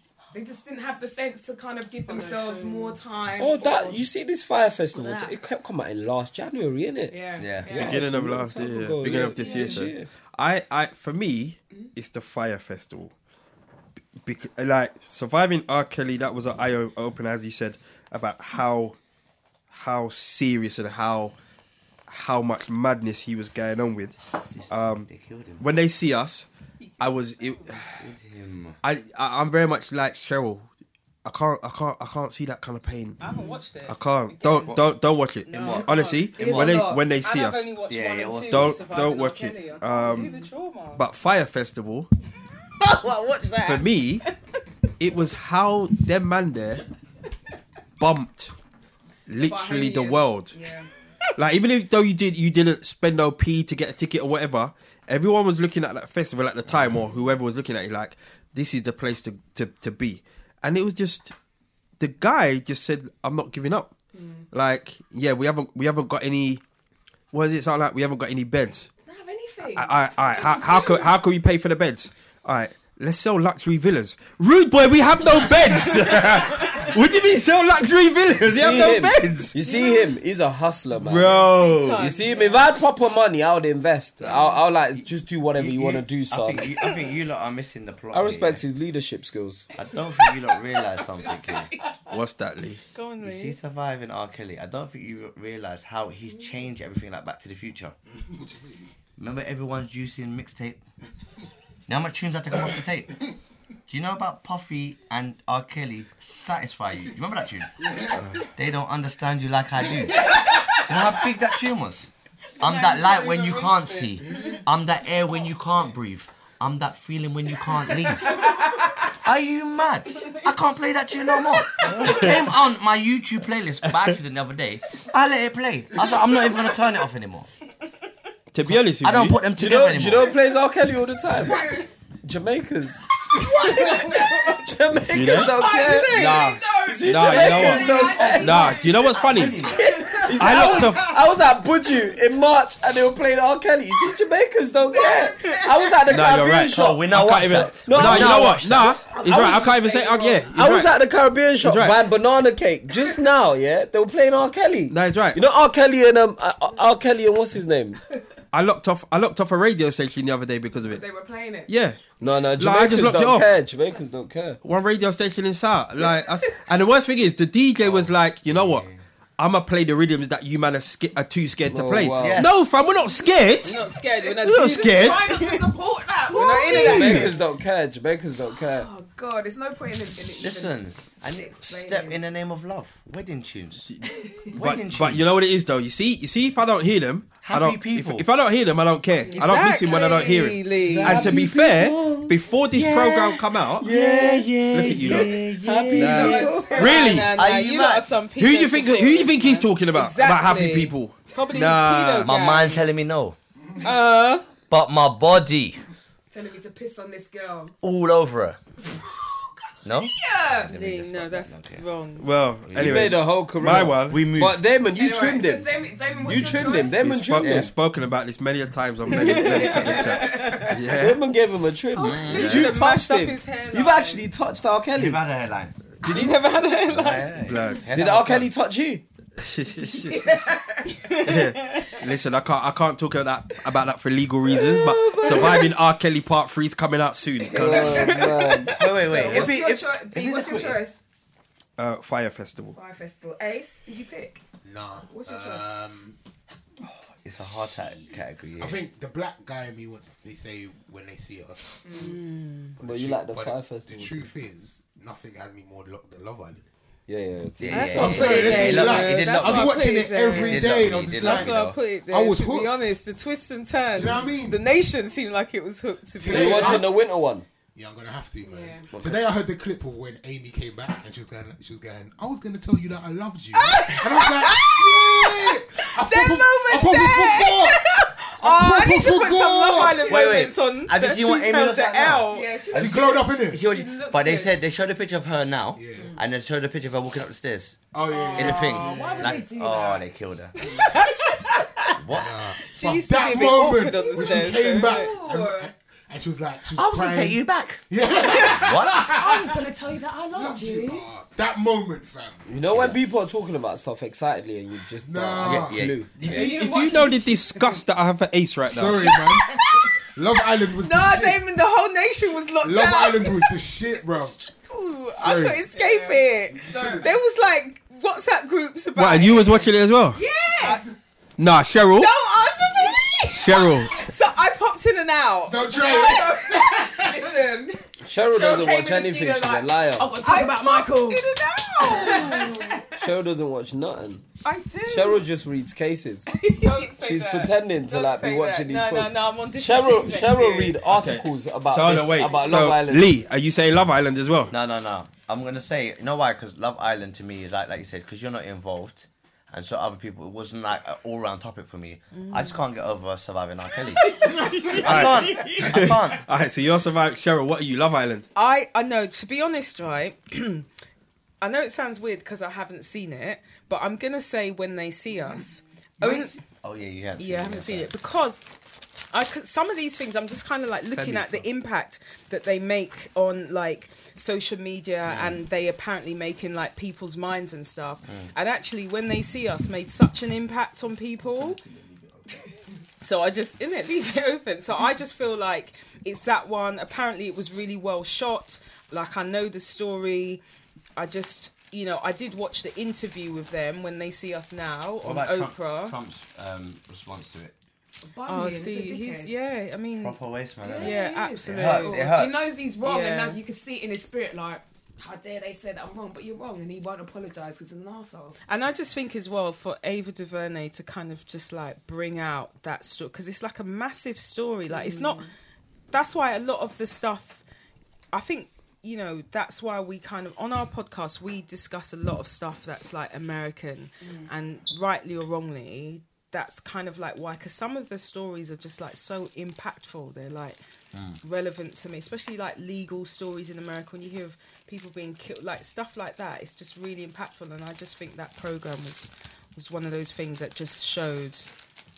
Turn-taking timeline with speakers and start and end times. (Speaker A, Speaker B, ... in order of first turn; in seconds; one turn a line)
Speaker A: 0.3-4.0
Speaker B: 2.1-3.0
Speaker C: 3.4-10.1
Speaker A: 4.9-5.3
Speaker A: 7.1-8.1
Speaker D: 7.4-7.8
Speaker E: 7.7-13.1
Speaker A: 9.4-9.8
Speaker E: 14.2-19.0
Speaker E: 19.7-21.3
Speaker E: 22.1-24.2
Speaker D: 24.3-25.6
Speaker E: 24.7-25.1
Speaker E: 25.6-26.5
Speaker B: 26.8-27.7
Speaker E: 27.0-28.0
Speaker D: 27.9-28.8
Speaker E: 28.8-30.7
Speaker E: 31.2-33.2
Speaker B: 33.2-41.0
Speaker A: 33.2-33.6
Speaker E: 33.9-37.7
Speaker D: 35.5-35.9
Speaker A: 36.3-37.0
Speaker D: 36.4-36.8
Speaker D: 37.9-38.8
Speaker E: 38.5-40.3
Speaker A: 40.0-40.5
Speaker E: 41.0-42.1
Speaker B: 42.8-43.9
Speaker E: 43.6-44.2
Speaker E: 45.0-46.8
Speaker E: 48.0-48.5
Speaker E: 49.3-50.5
Speaker A: 49.4-50.9
Speaker E: 51.4-61.3
Speaker E: 62.0-63.9
Speaker A: 64.1-64.5
Speaker E: 64.5-66.6
Speaker E: 67.3-68.9
Speaker A: 69.0-71.2
Speaker E: 69.7-79.6
Speaker A: 75.8-76.0
Speaker C: 78.4-86.7
Speaker B: 79.6-80.1
Speaker E: 81.0-82.0
Speaker B: 81.2-82.7
Speaker B: 84.2-84.5
Speaker D: 85.6-88.6
Speaker C: 88.1-89.7
Speaker D: 89.7-91.7
Speaker B: 91.3-91.6
Speaker E: 92.1-92.8
Speaker B: 92.9-93.5
Speaker D: 93.2-97.9
Speaker F: 98.3-98.9
Speaker D: 99.2-100.8
Speaker D: 101.9-103.1
Speaker D: 103.9-118.4
Speaker F: 107.8-108.3
Speaker B: 110.3-110.8
Speaker B: 112.6-114.6
Speaker D: 119.1-127.5
Speaker E: 122.0-122.3
Speaker E: 128.5-129.4
Speaker D: 128.7-130.3
Speaker C: 129.5-138.8
Speaker A: 131.4-131.8
Speaker A: 133.3-134.6
Speaker B: 133.7-134.2
Speaker E: 135.1-139.7
Speaker A: 135.6-141.0
Speaker B: 135.6-136.7
Speaker B: 137.5-138.4
Speaker D: 138.0-140.3
Speaker C: 139.6-147.0
Speaker E: 140.3-141.2
Speaker A: 144.9-146.0
Speaker E: 146.1-150.9
Speaker D: 146.7-149.3
Speaker C: 147.8-149.6
Speaker A: 149.0-150.5
Speaker C: 150.5-158.0
Speaker E: 151.6-152.0
Speaker E: 154.9-155.4
Speaker E: 158.5-161.0
Speaker A: 160.8-161.7
Speaker E: 161.7-162.0
Speaker C: 162.2-164.6
Speaker E: 162.6-163.5
Speaker E: 164.6-168.8
Speaker D: 167.8-169.0
Speaker E: 169.4-173.8
Speaker C: 171.7-172.4
Speaker D: 172.1-172.6
Speaker B: 173.6-177.3
Speaker E: 174.3-175.6
Speaker A: 174.9-177.4
Speaker C: 176.5-178.9
Speaker E: 176.5-177.3
Speaker A: 178.5-182.2
Speaker D: 180.4-183.9
Speaker A: 184.1-184.5
Speaker D: 184.5-185.2
Speaker E: 184.6-193.9
Speaker D: 187.4-188.3
Speaker A: 189.2-190.3
Speaker B: 189.3-191.3
Speaker D: 190.8-196.6
Speaker C: 190.8-192.3
Speaker C: 193.8-195.3
Speaker E: 194.7-195.3
Speaker B: 195.1-202.8
Speaker C: 195.8-196.8
Speaker A: 195.9-197.3
Speaker E: 196.7-197.4
Speaker D: 197.2-198.1
Speaker E: 198.4-202.3
Speaker D: 202.2-203.3
Speaker B: 203.8-204.4
Speaker D: 204.7-205.8
Speaker A: 206.3-207.7
Speaker D: 207.8-208.6
Speaker A: 208.9-210.7
Speaker D: 209.8-211.8
Speaker B: 210.7-212.3
Speaker E: 212.2-214.2
Speaker D: 212.6-213.2
Speaker C: 212.7-217.7
Speaker D: 214.0-214.7
Speaker A: 214.9-217.1
Speaker E: 216.3-221.2
Speaker D: 217.4-217.7
Speaker B: 219.1-220.8
Speaker A: 219.1-220.8
Speaker C: 220.9-225.2
Speaker A: 222.0-222.4
Speaker B: 222.0-224.3
Speaker D: 222.0-222.6
Speaker E: 222.3-222.7
Speaker D: 224.9-225.8
Speaker B: 226.0-227.3
Speaker D: 226.8-228.5
Speaker E: 227.4-227.9
Speaker C: 227.9-229.0
Speaker E: 229.4-230.4
Speaker A: 229.9-231.2
Speaker B: 231.0-231.9
Speaker E: 231.2-238.2
Speaker C: 234.5-235.7
Speaker C: 237.5-239.4
Speaker A: 237.7-238.1
Speaker B: 237.9-239.0
Speaker D: 238.7-240.8
Speaker A: 239.0-241.0
Speaker E: 241.8-242.8
Speaker A: 242.7-244.4
Speaker F: 244.6-246.2
Speaker A: 245.1-245.7
Speaker D: 247.2-248.8
Speaker F: 247.7-252.1
Speaker A: 251.8-252.2
Speaker B: 251.9-252.7
Speaker F: 252.8-256.6
Speaker C: 252.8-254.3
Speaker C: 257.1-258.6
Speaker D: 257.6-261.8
Speaker B: 257.7-266.9
Speaker F: 257.9-262.8
Speaker A: 258.1-258.9
Speaker F: 263.9-264.6
Speaker F: 266.2-266.9
Speaker C: 266.3-267.4
Speaker F: 267.7-280.2
Speaker A: 268.4-268.9
Speaker C: 268.9-269.2
Speaker B: 273.5-282.6
Speaker A: 279.7-280.4
Speaker D: 280.0-290.5
Speaker A: 282.3-284.6
Speaker F: 282.7-283.6
Speaker F: 285.8-286.2
Speaker F: 287.9-289.4
Speaker A: 288.1-290.1
Speaker B: 290.6-291.9
Speaker A: 290.7-291.0
Speaker D: 291.9-293.0
Speaker F: 292.1-299.6
Speaker B: 292.7-295.1
Speaker A: 293.9-295.7
Speaker D: 296.7-299.2
Speaker A: 299.1-301.0
Speaker F: 300.3-302.5
Speaker C: 302.5-306.3
Speaker D: 302.7-303.0
Speaker F: 305.0-305.8
Speaker D: 305.4-306.7
Speaker A: 306.2-307.8
Speaker E: 306.2-309.1
Speaker F: 308.7-311.4
Speaker B: 309.6-309.9
Speaker B: 310.8-313.5
Speaker F: 312.6-314.4
Speaker B: 314.1-319.7
Speaker F: 315.2-315.6
Speaker A: 315.7-317.1
Speaker F: 316.5-317.1
Speaker E: 318.9-320.2
Speaker A: 320.1-320.8
Speaker F: 320.6-321.0
Speaker E: 321.4-322.1
Speaker B: 321.9-326.8
Speaker A: 322.8-324.1
Speaker E: 323.3-324.0
Speaker F: 325.4-327.4
Speaker A: 325.7-333.0
Speaker C: 328.0-330.2
Speaker B: 330.2-332.8
Speaker C: 333.0-334.2
Speaker B: 334.4-335.3
Speaker C: 334.9-336.3
Speaker B: 336.3-340.8
Speaker C: 337.0-343.1
Speaker E: 340.8-344.5
Speaker D: 344.5-356.3
Speaker B: 352.1-352.6
Speaker B: 353.9-355.8
Speaker F: 354.3-354.6
Speaker E: 354.7-358.2
Speaker B: 358.3-360.6
Speaker B: 361.4-366.4
Speaker D: 366.0-367.9
Speaker B: 367.2-368.4
Speaker B: 369.1-381.6
Speaker E: 370.9-371.4
Speaker D: 375.0-375.4
Speaker D: 378.1-378.3
Speaker F: 381.6-382.4
Speaker B: 383.0-390.4
Speaker B: 390.9-395.9
Speaker D: 395.0-397.5
Speaker A: 398.0-399.3
Speaker B: 398.3-400.2
Speaker D: 399.9-402.5
Speaker A: 400.6-408.4
Speaker B: 400.8-402.1
Speaker B: 402.8-403.4
Speaker B: 408.5-415.3
Speaker A: 414.7-415.3
Speaker B: 415.9-417.4
Speaker B: 418.1-430.6
Speaker A: 424.0-424.3
Speaker D: 430.9-431.2
Speaker B: 431.2-441.5